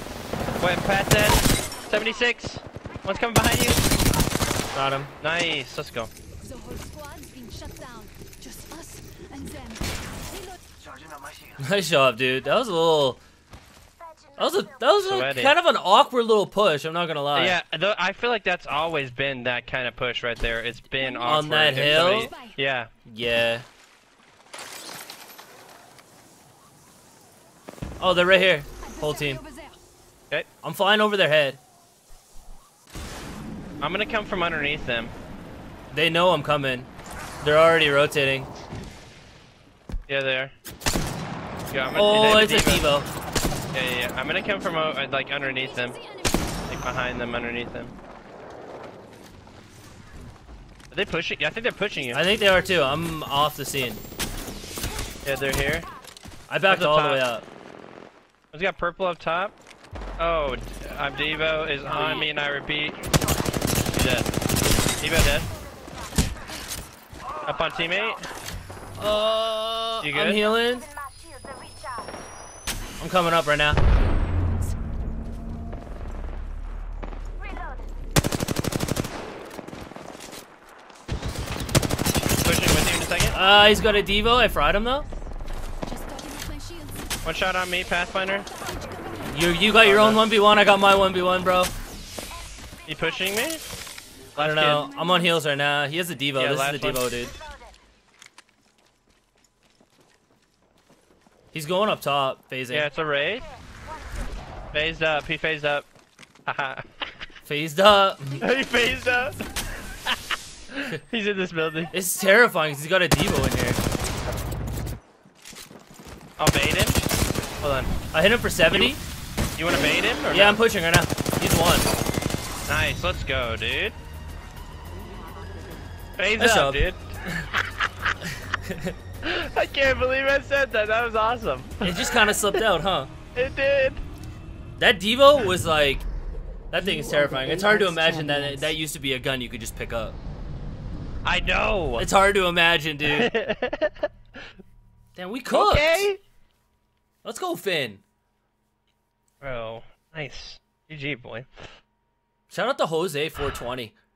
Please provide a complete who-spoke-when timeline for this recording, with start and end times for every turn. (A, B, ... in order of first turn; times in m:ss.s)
0:00.6-0:03.8 A
0:04.7-0:05.1 B
0:05.2-0:06.1 A
0:06.4-0:10.6 C
0:10.8-0:11.5 D
0:11.6-0:13.2 B
0:14.0-0:14.7 D
0:14.4-0:17.6 B
0:14.9-0:15.5 A
0:17.3-0:22.9 A
0:20.9-0:22.6 C
0:21.2-0:22.3 B
0:23.0-0:23.6 B
0:28.0-0:29.4 B
0:28.8-0:29.8 C
0:30.6-0:31.6 B
0:33.8-0:35.1 A
0:35.9-0:36.9 B
0:37.4-0:38.5 B
0:40.1-0:40.5 A
0:41.7-0:42.9 A
0:41.9-0:43.1 B
0:43.7-0:46.0 A
0:45.2-0:46.7 C
0:46.7-0:47.9 A
0:50.9-0:52.2 A
0:52.1-0:54.0 B
0:55.2-0:55.9 A
0:56.5-0:57.5 B
0:56.6-0:57.2 A
0:58.5-0:59.5 A
1:00.2-1:03.1 A
1:01.9-1:02.2 B
1:03.9-1:04.3 A
1:05.0-1:05.5 A
1:07.4-1:08.2 A
1:09.0-1:10.9 B
1:10.0-1:10.5 A
1:10.9-1:12.0 D
1:13.0-1:13.8 B
1:14.0-1:14.7 C
1:17.4-1:17.8 D
1:22.4-1:23.4 A
1:23.3-1:25.1 B
1:25.8-1:27.1 C
1:27.2-1:28.5 A
1:28.4-1:29.7 C
1:29.3-1:31.7 B
1:29.8-1:30.3 A
1:32.8-1:33.6 A
1:34.3-1:37.4 B
1:34.4-1:34.9 A
1:34.7-1:35.3 C
1:36.3-1:37.2 A
1:37.4-1:37.7 D
1:41.5-1:42.9 B
1:42.7-1:43.5 A
1:44.7-1:45.9 A
1:46.4-1:47.1 A
1:47.4-1:48.5 B
1:48.4-1:51.9 A
1:48.4-1:49.4 C
1:51.9-1:53.8 B
1:56.4-1:57.1 A
1:57.6-1:57.9 A
1:58.1-1:59.0 B
1:58.7-1:59.0 A
1:59.6-2:00.6 A
2:00.3-2:01.9 B
2:02.6-2:04.0 A
2:06.2-2:07.1 A
2:06.4-2:07.5 B
2:08.2-2:09.0 B
2:09.2-2:12.6 A
2:11.8-2:13.1 B
2:13.3-2:14.0 A
2:14.8-2:16.1 B
2:16.7-2:20.2 B
2:17.6-2:18.5 C
2:21.2-2:22.1 A
2:22.0-2:23.3 B
2:23.1-2:24.1 A
2:25.2-2:26.1 B
2:25.5-2:26.2 A
2:27.2-2:28.0 B
2:29.4-2:31.5 A
2:32.5-2:33.9 B